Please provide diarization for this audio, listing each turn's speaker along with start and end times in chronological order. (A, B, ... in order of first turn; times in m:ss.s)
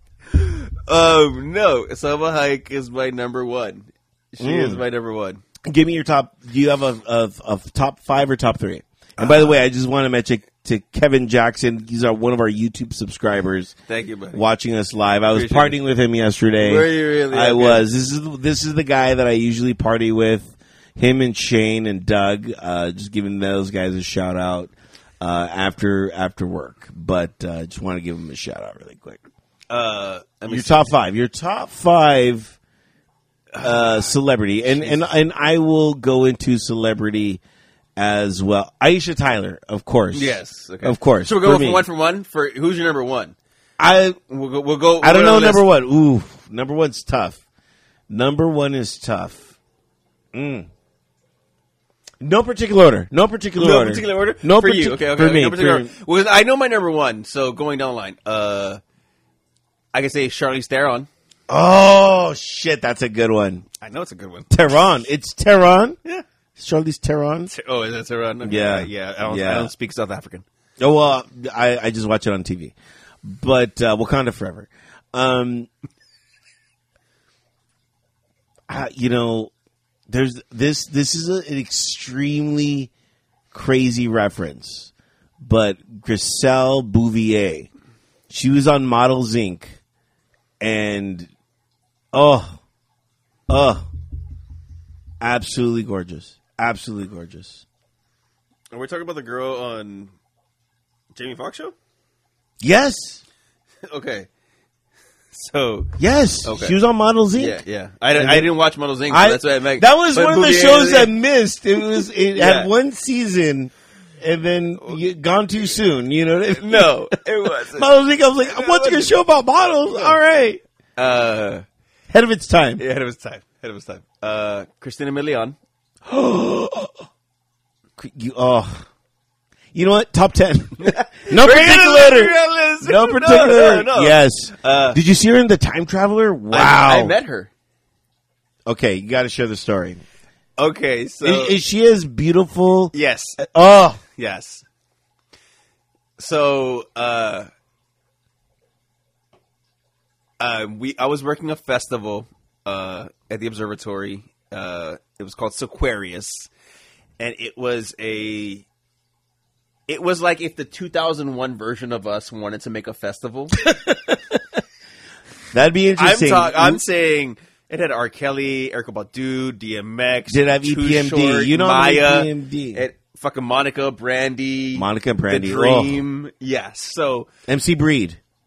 0:00.3-0:05.4 A
0:04.4-0:04.8 B
0:05.6-0:13.7 B
0:09.2-0:09.6 A
0:13.9-0:14.4 A
0:14.3-0:29.2 B
0:15.3-0:15.8 A
0:16.6-0:17.8 A
0:29.7-0:30.9 A
0:30.5-0:32.6 B
0:33.5-0:34.1 A
0:33.6-0:37.4 B
0:34.6-0:35.0 A
0:38.0-0:41.8 B
0:40.1-0:43.3 A
0:43.8-0:44.2 B
0:44.3-0:45.6 A
0:45.0-0:47.4 B
0:48.1-0:49.5 B
0:50.3-0:50.7 B
0:52.2-0:55.9 B
0:53.6-0:58.8 A
0:59.9-1:01.1 A
1:01.5-1:03.6 B
1:03.8-1:04.9 A
1:04.5-1:06.0 B
1:06.6-1:07.5 B
1:07.5-1:10.4 A
1:08.4-1:09.7 B
1:10.8-1:15.7 B
1:18.7-1:19.5 B
1:20.1-1:22.9 B
1:23.5-1:27.7 B
1:28.3-1:29.8 B
1:30.6-1:31.3 B
1:32.1-1:32.6 B
1:33.5-1:33.8 B
1:35.2-1:37.6 B
1:38.7-1:40.1 A
1:41.1-1:41.7 A
1:42.6-1:43.2 B
1:43.9-1:44.3 A
1:45.3-1:45.9 A
1:46.0-1:47.6 B
1:46.4-1:46.8 A
1:47.3-1:51.1 A
1:48.2-1:48.5 B
1:49.1-2:00.6 B
1:52.0-1:52.7 A
1:56.6-1:57.9 A
1:58.4-1:59.1 A
1:59.9-2:00.2 A
2:01.0-2:01.6 A
2:02.1-2:02.8 B
2:02.8-2:05.6 A
2:06.0-2:07.0 B
2:08.0-2:08.8 B
2:09.7-2:17.1 B
2:10.8-2:15.0 A
2:16.5-2:17.5 A
2:18.7-2:20.0 B
2:20.6-2:21.5 A
2:21.2-2:24.0 B
2:22.9-2:23.4 A
2:24.1-2:24.6 A
2:26.2-2:27.5 A
2:30.4-2:36.5 A
2:37.2-2:38.6 A
2:39.9-2:43.6 A
2:43.6-2:44.4 B
2:45.5-2:46.8 B
2:46.0-2:57.3 A
2:50.3-2:52.8 B
2:54.7-2:56.0 B
2:57.5-2:58.2 B